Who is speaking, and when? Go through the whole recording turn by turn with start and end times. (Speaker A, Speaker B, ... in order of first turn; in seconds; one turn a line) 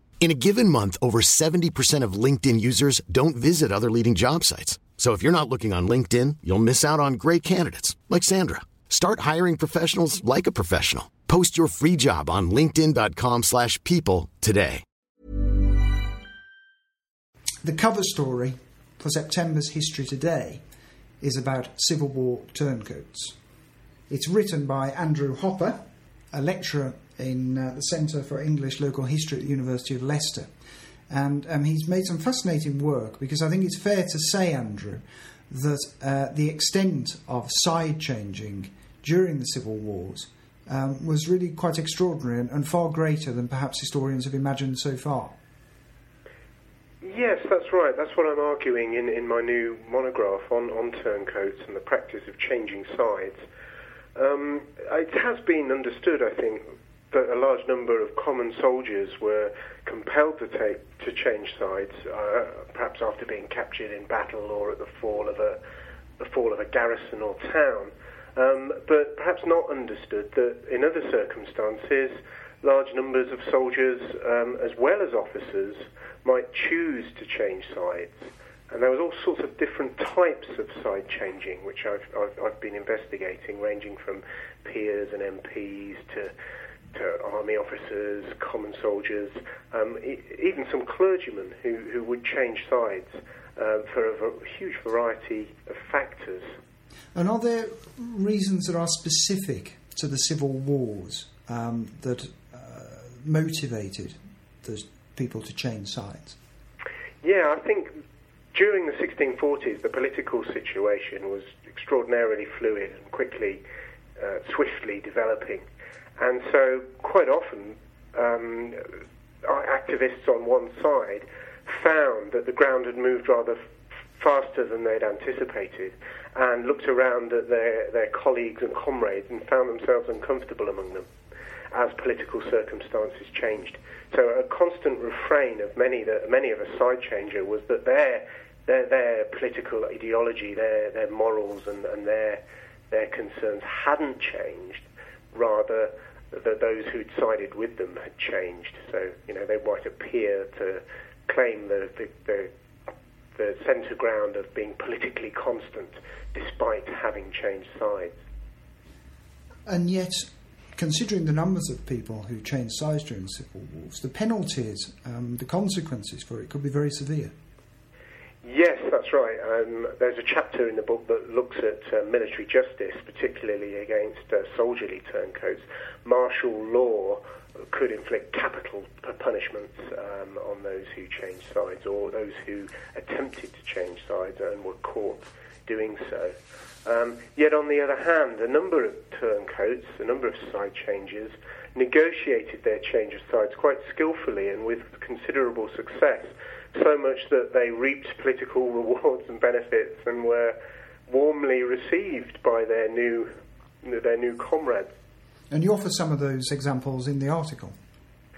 Speaker A: 0.2-14.8
Speaker B: 17.6-20.6
Speaker B: 21.2-23.3
Speaker B: 24.1-25.8
Speaker B: 26.3-30.5
Speaker B: 31.1-45.3
Speaker C: 47.0-53.4
Speaker C: 54.1-65.6
Speaker C: 66.2-86.3
Speaker C: 86.9-96.5
Speaker B: 97.1-106.3
Speaker C: 107.2-107.9
Speaker C: 108.5-113.6
Speaker C: 114.2-115.6
Speaker C: 116.2-118.8
Speaker C: 119.4-123.6
Speaker C: 124.2-131.1
Speaker C: 131.7-152.5
Speaker C: 153.3-158.2
Speaker B: 159.7-167.3
Speaker C: 168.4-186.3
Speaker C: 186.8-200.6
Speaker C: 201.1-203.3
Speaker C: 203.8-204.9
Speaker B: 205.5-207.7